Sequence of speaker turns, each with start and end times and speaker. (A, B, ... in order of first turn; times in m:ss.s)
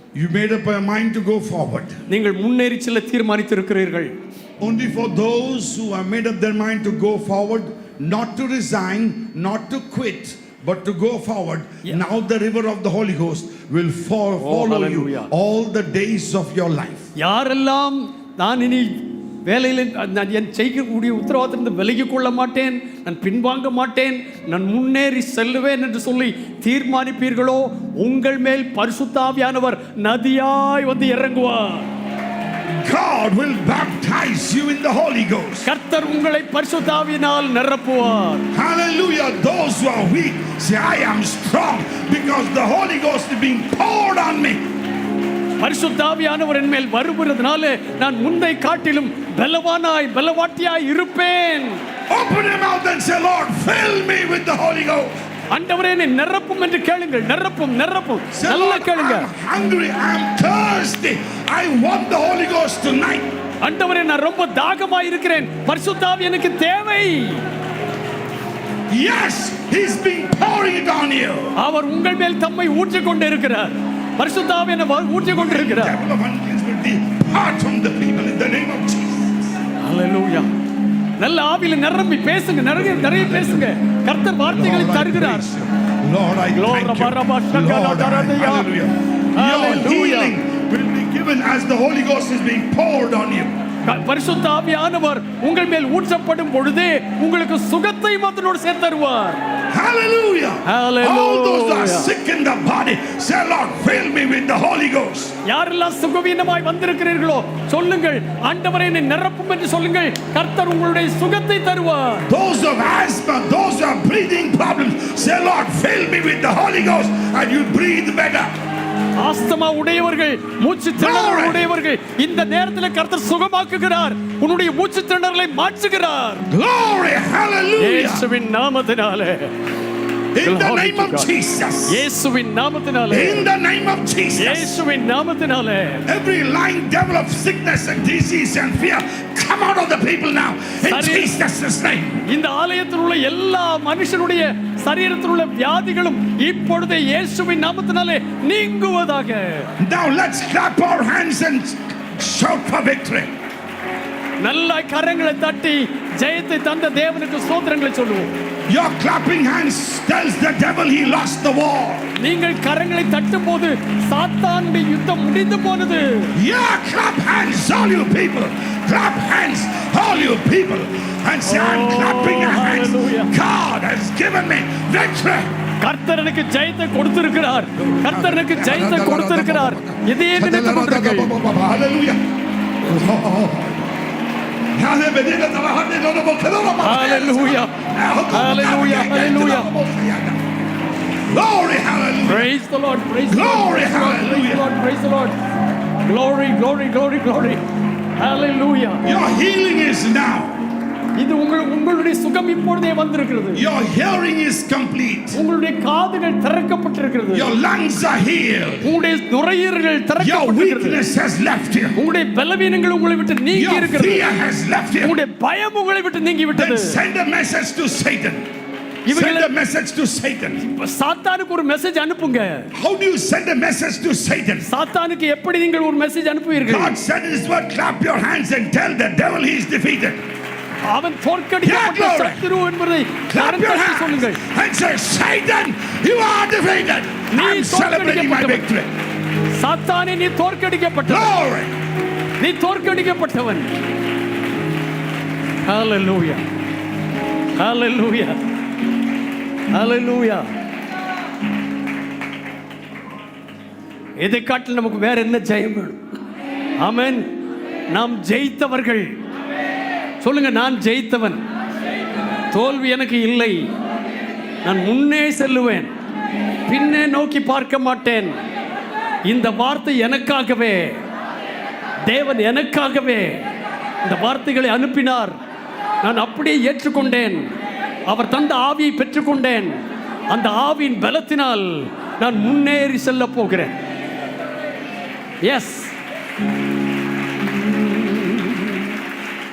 0:00.1-0:01.9 A
0:02.1-0:04.1 B
0:04.6-0:17.1 A
0:14.4-0:15.3 B
0:17.2-0:31.9 B
0:32.8-0:35.7 A
0:35.6-0:38.5 B
0:38.5-0:44.6 A
0:45.6-0:51.8 B
0:52.1-0:55.1 A
0:55.5-0:59.3 B
0:58.3-1:03.3 A
1:03.6-1:07.4 B
1:08.9-1:11.5 A
1:11.6-1:16.0 B
1:15.3-1:19.5 A
1:19.8-1:20.5 B
1:21.2-1:25.6 B
1:22.7-1:23.7 A
1:24.5-1:33.5 A
1:26.5-1:28.7 B
1:29.4-1:30.3 B
1:33.8-1:39.4 B
1:39.7-1:45.3 A
1:40.6-1:42.1 B
1:45.4-1:52.3 B
1:52.3-1:58.5 A
1:59.2-2:06.4 B
2:01.0-2:01.6 A
2:06.5-2:08.2 A
2:07.8-2:09.5 B
2:10.3-2:12.0 A
2:10.4-2:11.3 B
2:11.9-2:13.5 B
2:13.1-2:14.8 A
2:14.4-2:16.0 B
2:16.0-2:22.2 A
2:20.8-2:21.3 B
2:22.3-2:29.7 B
2:29.8-2:33.3 A
2:34.4-2:38.3 B
2:38.7-2:42.1 A
2:42.2-2:46.3 B
2:46.4-2:55.5 A
2:51.5-2:53.3 B
2:55.8-3:01.3 B
2:57.8-3:02.2 A
3:02.8-3:03.8 A
3:04.7-3:10.4 A
3:06.8-3:07.7 B
3:08.3-3:09.7 B
3:11.3-3:12.5 A
3:12.2-3:15.3 B
3:13.3-3:14.6 A
3:16.0-3:17.6 B
3:18.2-3:19.0 B
3:19.0-3:20.5 A
3:21.2-3:23.6 B
3:23.5-3:25.4 A
3:25.3-3:27.5 B
3:27.3-3:28.9 A
3:28.8-3:31.0 B
3:30.2-3:32.0 A
3:32.0-3:34.3 B
3:33.5-3:35.2 A
3:35.0-3:37.0 B
3:36.5-3:38.4 A
3:39.0-3:39.5 B
3:39.1-3:40.6 A
3:40.6-3:42.7 B
3:42.7-3:44.7 A
3:44.7-3:47.0 B
3:46.6-3:50.2 A
3:50.8-3:54.4 B
3:51.6-3:52.5 A
3:53.3-3:58.9 A
3:57.3-3:58.6 B
3:59.5-4:01.3 B
4:01.1-4:01.7 A
4:02.4-4:03.7 B
4:05.6-4:06.4 B
4:07.6-4:08.4 B
4:09.7-4:10.4 B
4:14.2-4:16.0 B
4:16.8-4:17.3 B
4:17.9-4:19.1 B
4:20.2-4:21.4 B
4:22.5-4:23.6 B
4:24.6-4:25.9 B
4:26.7-4:28.3 B
4:29.2-4:30.9 B
4:32.0-4:33.4 B
4:34.0-4:35.3 B
4:36.0-4:37.5 B
4:38.1-4:39.8 B
4:40.3-4:43.7 B
4:45.4-4:45.9 B
4:47.4-4:48.9 B